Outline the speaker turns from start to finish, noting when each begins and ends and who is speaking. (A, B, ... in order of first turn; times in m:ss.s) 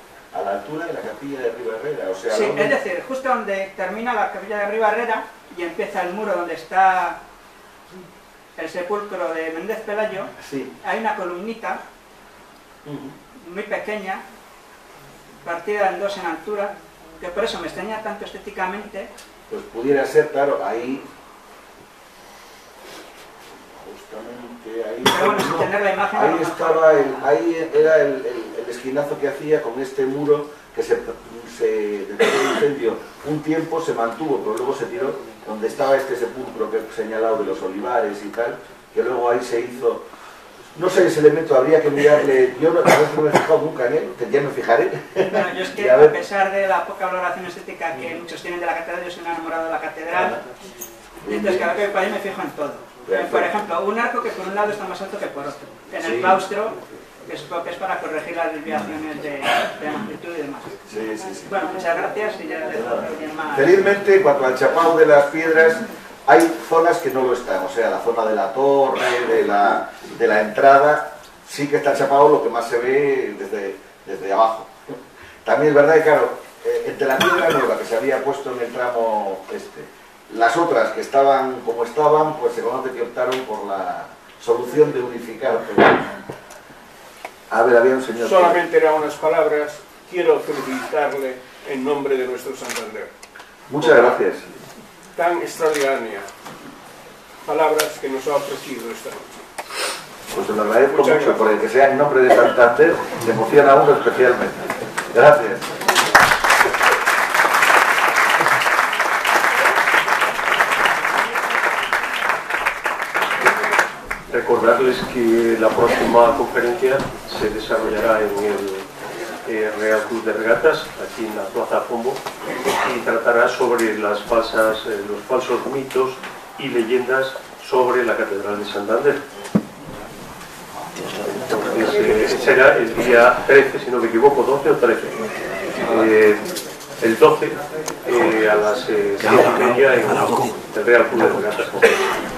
0:00.3-0:02.8 A
0:02.3-0:07.2 B
0:08.6-0:11.8 B
0:10.4-0:10.7 A
0:12.8-0:13.1 A
0:13.4-0:14.2 B
0:15.4-0:19.1 B
0:19.5-0:21.1 A
0:23.7-0:40.1 A
0:25.1-0:27.1 B
0:40.8-0:46.2 A
0:45.3-0:50.4 B
0:51.2-0:51.6 A
0:51.3-1:00.8 B
0:53.1-0:53.5 A
0:56.0-0:56.4 A
1:00.9-1:01.5 A
1:01.5-1:04.0 B
1:02.8-1:26.2 A
1:27.5-1:28.6 A
1:28.2-1:33.1 C
1:33.7-1:34.5 A
1:35.1-1:36.3 C
1:37.4-1:39.3 C
1:40.3-1:45.7 A
1:40.9-1:41.4 C
1:54.3-1:58.9 D
1:59.4-2:09.2 D
2:11.4-2:15.2 D
2:15.8-2:16.5 D
2:17.0-2:22.0 D